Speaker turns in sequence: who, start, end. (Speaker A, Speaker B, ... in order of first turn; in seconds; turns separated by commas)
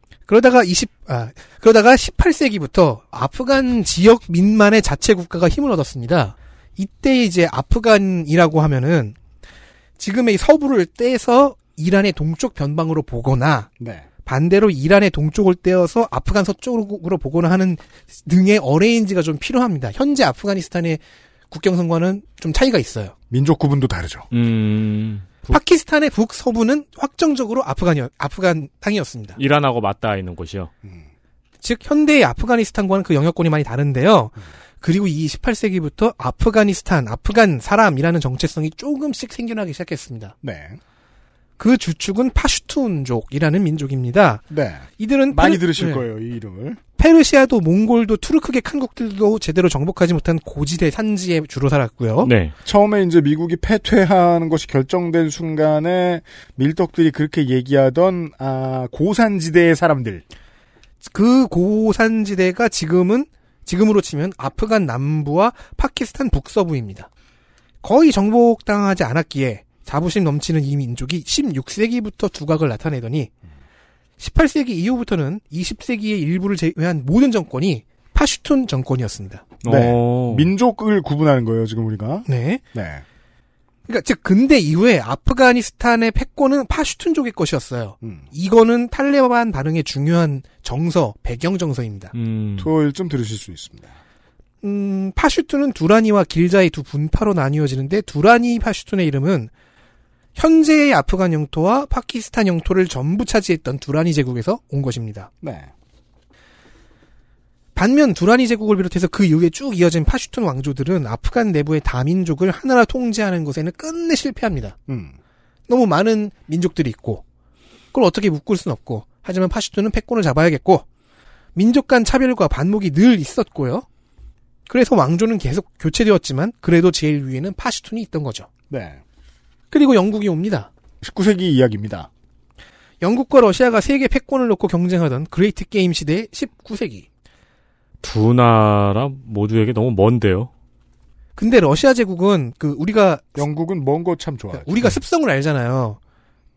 Speaker A: 0.3-9.2, Speaker A: 10.0-13.7, Speaker B: 13.8-14.1, Speaker A: 14.2-23.1, Speaker B: 23.3-24.3, Speaker C: 24.3-25.6, Speaker A: 25.5-29.4, Speaker C: 29.4-30.7, Speaker A: 31.6-40.4, Speaker B: 40.4-40.8, Speaker A: 41.6-44.5, Speaker B: 44.5-46.8, Speaker A: 45.0-46.0, Speaker A: 47.0-52.3, Speaker C: 52.2-52.5, Speaker B: 52.6-60.2, Speaker A: 61.0-67.1, Speaker A: 67.8-73.3, Speaker A: 74.2-79.6, Speaker C: 79.6-80.5, Speaker B: 79.6-83.0, Speaker A: 82.3-82.6, Speaker A: 83.9-92.1, Speaker B: 88.0-88.3, Speaker C: 92.1-92.7, Speaker B: 92.6-94.0, Speaker A: 94.6-99.5, Speaker A: 100.4-105.3, Speaker B: 105.4-105.7, Speaker A: 107.8-114.8, Speaker B: 114.9-115.2, Speaker A: 115.7-117.2, Speaker A: 117.9-120.8, Speaker A: 121.5-123.9, Speaker A: 124.7-128.5, Speaker B: 128.7-129.0, Speaker A: 129.7-130.7, Speaker B: 131.0-132.1, Speaker A: 133.0-137.1, Speaker C: 138.0-140.5, Speaker A: 141.4-143.4, Speaker B: 143.4-145.0, Speaker A: 144.5-146.0